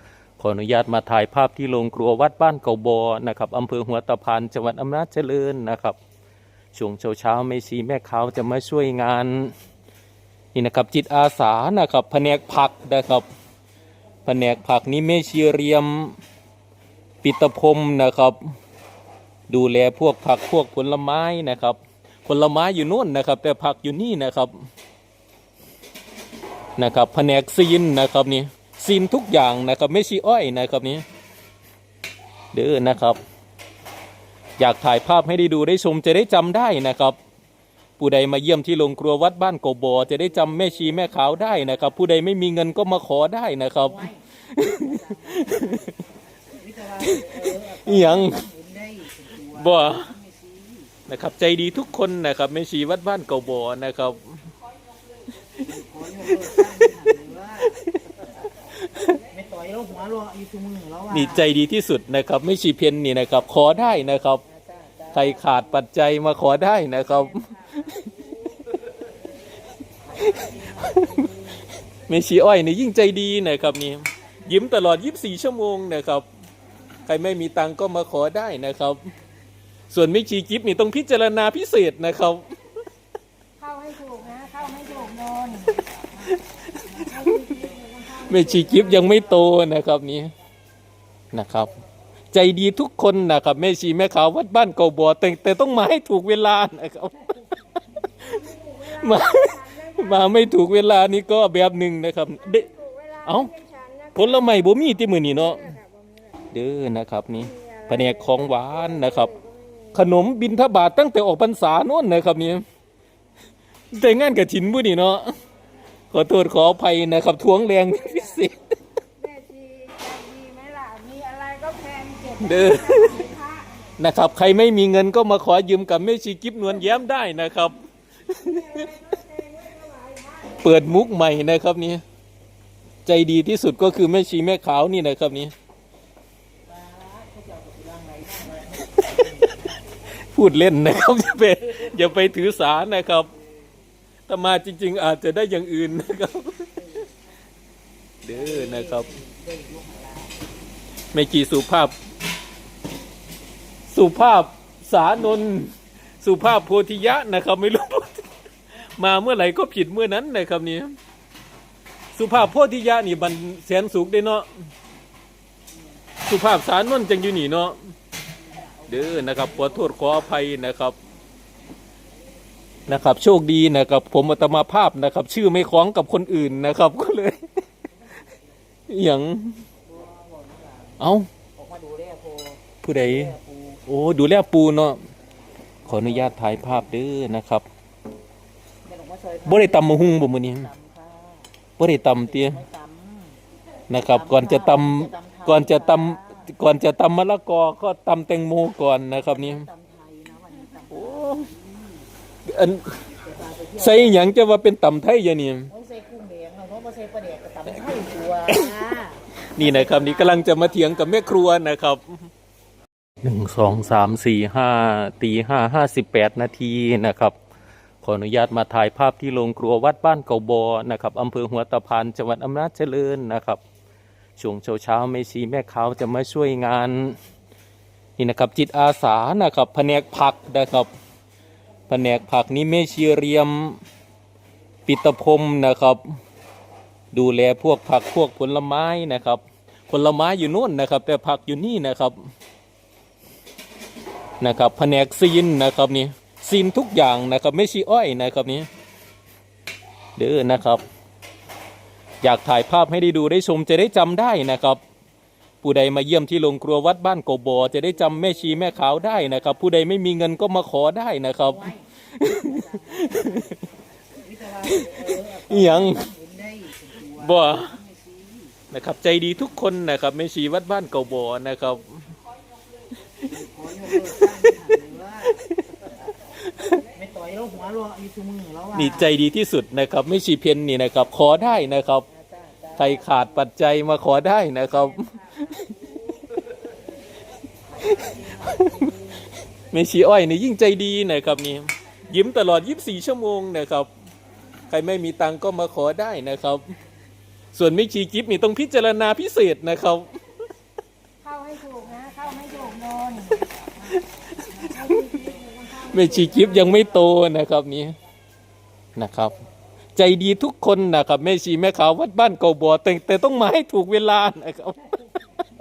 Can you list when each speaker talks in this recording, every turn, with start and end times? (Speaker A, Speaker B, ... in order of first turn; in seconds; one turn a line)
Speaker A: 0.4-6.0
Speaker A: 6.7-9.5
Speaker A: 10.5-13.2
Speaker A: 14.2-16.2
Speaker A: 17.2-18.4
Speaker A: 19.5-24.5
Speaker A: 26.8-31.0
Speaker A: 32.5-33.2
Speaker A: 34.6-37.2
Speaker A: 38.0-45.9
Speaker B: 40.2-41.9
Speaker B: 43.8-45.9
Speaker B: 46.5-50.9
Speaker A: 47.0-48.4
Speaker A: 49.5-50.1
Speaker A: 51.1-54.3
Speaker B: 55.6-58.4
Speaker A: 57.7-57.9
Speaker A: 58.8-59.2
Speaker B: 59.1-61.5
Speaker A: 61.1-64.4
Speaker B: 64.5-65.8
Speaker A: 65.1-67.9
Speaker B: 67.2-67.8
Speaker B: 70.0-71.6
Speaker A: 70.3-71.1
Speaker A: 72.1-76.3
Speaker A: 77.1-79.1
Speaker A: 79.9-82.5
Speaker C: 83.6-85.8
Speaker B: 84.5-84.9
Speaker B: 85.8-89.1
Speaker A: 86.3-87.3
Speaker A: 88.1-90.3
Speaker C: 88.3-88.9
Speaker A: 91.3-91.7
Speaker A: 92.3-97.2
Speaker A: 98.0-98.3
Speaker C: 98.2-100.4
Speaker A: 98.8-102.7
Speaker C: 102.7-104.6
Speaker A: 103.2-103.5
Speaker A: 104.2-105.8
Speaker C: 105.5-106.3
Speaker A: 106.5-109.3
Speaker C: 107.5-109.9
Speaker A: 109.9-112.6
Speaker A: 113.9-115.3
Speaker A: 116.1-118.6
Speaker C: 119.2-123.7
Speaker A: 122.4-123.3
Speaker A: 124.0-128.9
Speaker C: 128.4-130.6
Speaker A: 130.6-132.0
Speaker A: 133.1-135.5
Speaker B: 136.7-139.7
Speaker A: 140.3-143.3
Speaker A: 144.3-146.7
Speaker B: 146.8-147.1
Speaker A: 148.2-149.1
Speaker B: 148.3-150.5
Speaker A: 151.1-151.9
Speaker A: 153.9-158.3
Speaker A: 159.0-160.9
Speaker A: 162.2-164.5
Speaker A: 166.2-167.8
Speaker B: 168.4-169.9
Speaker A: 168.9-171.0
Speaker A: 172.9-177.4
Speaker A: 178.9-179.6
Speaker B: 179.8-181.0
Speaker A: 181.0-181.3
Speaker B: 181.6-183.8
Speaker A: 182.8-183.3
Speaker A: 183.8-185.0
Speaker A: 185.8-187.7
Speaker B: 185.9-186.4
Speaker B: 188.8-193.4
Speaker A: 189.5-190.7
Speaker A: 191.8-192.6
Speaker A: 193.9-199.7
Speaker B: 194.1-196.5
Speaker B: 199.1-202.1
Speaker A: 200.9-201.5
Speaker A: 202.5-203.0
Speaker B: 203.2-204.2
Speaker A: 203.8-205.7
Speaker B: 205.7-211.1
Speaker A: 209.5-212.2
Speaker A: 213.2-217.3
Speaker A: 218.0-223.6
Speaker A: 224.4-227.2
Speaker A: 228.2-230.9
Speaker A: 231.9-233.8
Speaker A: 234.8-236.0
Speaker A: 237.1-242.2
Speaker A: 244.4-248.7
Speaker A: 250.2-250.8
Speaker A: 252.2-254.8
Speaker A: 255.6-263.6
Speaker B: 257.8-259.5
Speaker B: 261.4-268.5
Speaker A: 264.6-266.1
Speaker A: 267.1-267.8
Speaker A: 268.7-272.1
Speaker B: 273.3-275.4
Speaker A: 275.3-275.8
Speaker A: 276.5-276.8
Speaker B: 276.8-279.1
Speaker A: 278.7-282.0
Speaker B: 282.1-283.3
Speaker A: 282.7-285.7
Speaker B: 287.7-289.3
Speaker A: 287.8-288.8
Speaker A: 289.7-293.9
Speaker A: 294.7-296.7
Speaker A: 297.5-300.1
Speaker C: 301.2-303.4
Speaker B: 303.9-305.5
Speaker C: 304.6-306.8
Speaker A: 304.8-305.1
Speaker A: 305.7-307.9
Speaker A: 308.9-309.4
Speaker A: 309.9-314.9